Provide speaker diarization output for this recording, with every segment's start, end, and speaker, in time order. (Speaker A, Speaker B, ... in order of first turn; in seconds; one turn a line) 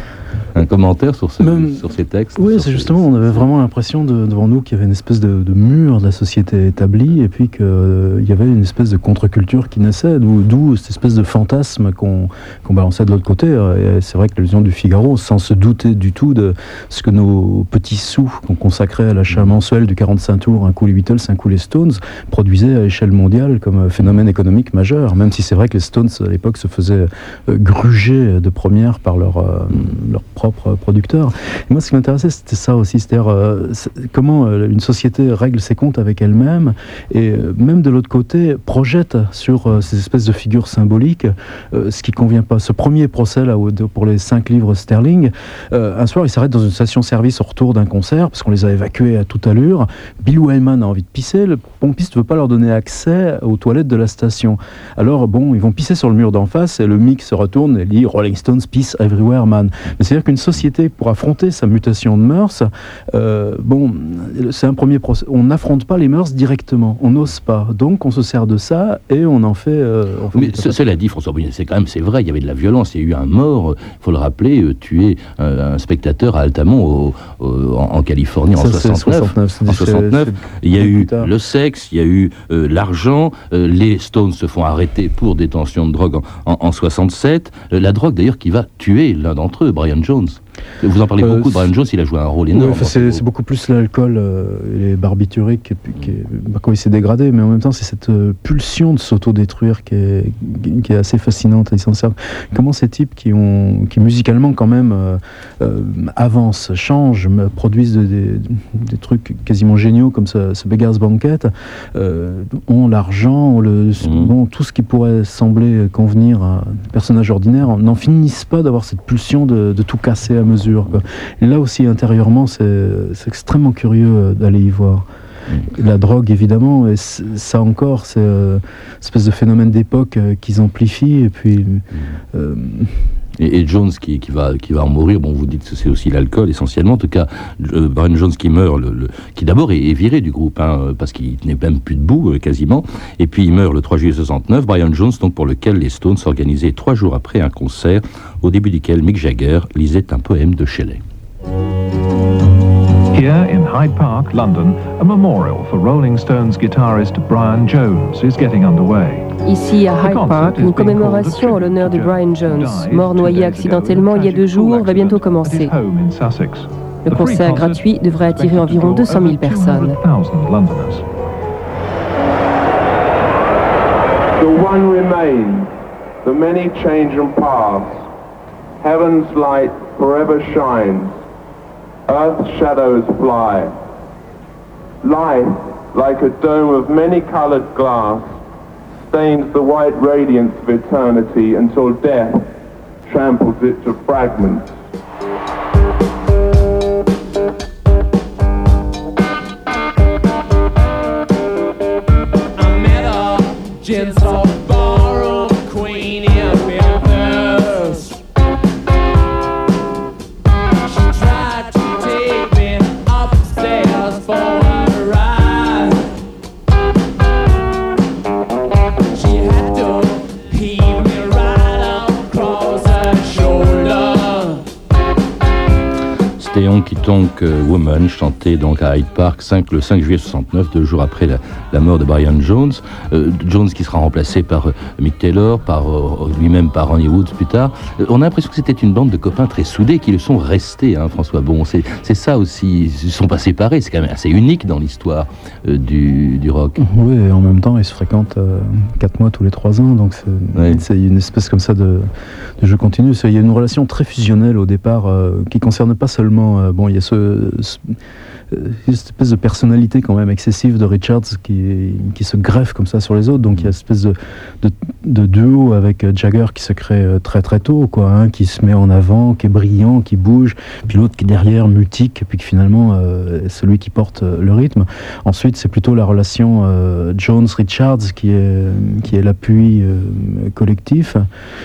Speaker A: 0.5-3.4
Speaker B: 1.4-1.8
Speaker B: 2.4-70.8
Speaker A: 70.3-93.2
Speaker B: 78.5-81.3
Speaker B: 91.2-91.7
Speaker B: 92.5-125.0
Speaker A: 114.0-114.3
Speaker B: 125.7-133.0
Speaker A: 133.4-151.0
Speaker C: 153.1-159.3
Speaker D: 159.4-165.7
Speaker C: 160.0-171.0
Speaker D: 167.1-170.0
Speaker E: 174.4-175.7
Speaker E: 176.2-178.1
Speaker E: 178.8-181.2
Speaker E: 182.1-183.7
Speaker E: 185.0-188.4
Speaker E: 189.1-192.5
Speaker E: 193.1-194.7
Speaker F: 202.6-208.2
Speaker F: 210.9-216.1
Speaker F: 219.1-224.6
Speaker A: 226.4-246.8
Speaker B: 246.8-252.1
Speaker A: 250.6-250.8
Speaker B: 252.6-257.9
Speaker B: 258.5-281.2